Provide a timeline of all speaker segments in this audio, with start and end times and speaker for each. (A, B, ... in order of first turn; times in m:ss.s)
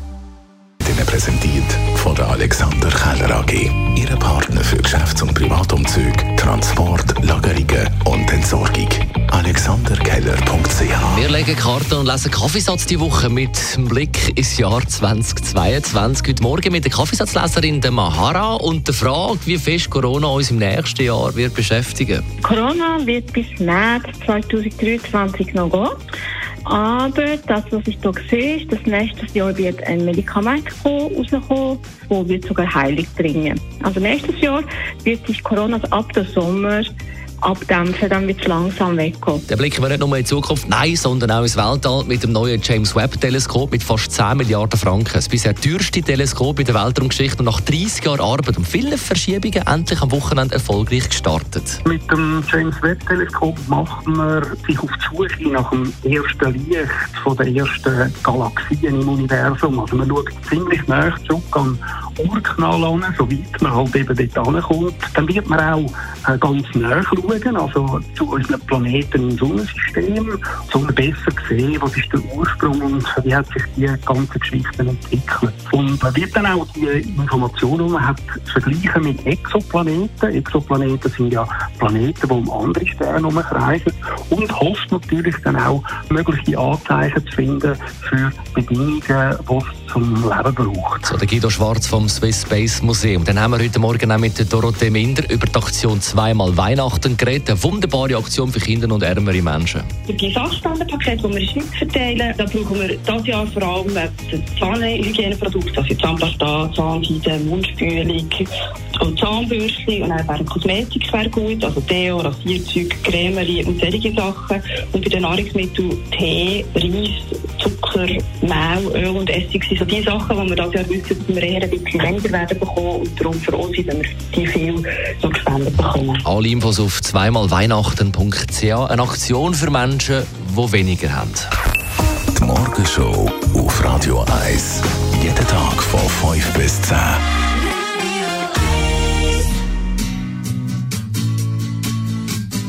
0:00.8-0:11.3 A
0:11.0-0:22.2 B
0:22.4-0:26.0 C
0:26.6-0:36.9 C
0:37.4-0:39.4 C
0:39.5-0:51.8 B
0:51.8-1:31.0 D
1:31.0-1:39.9 B
1:40.1-2:06.2 E
2:06.2-2:11.5 B
2:12.3-2:17.2 A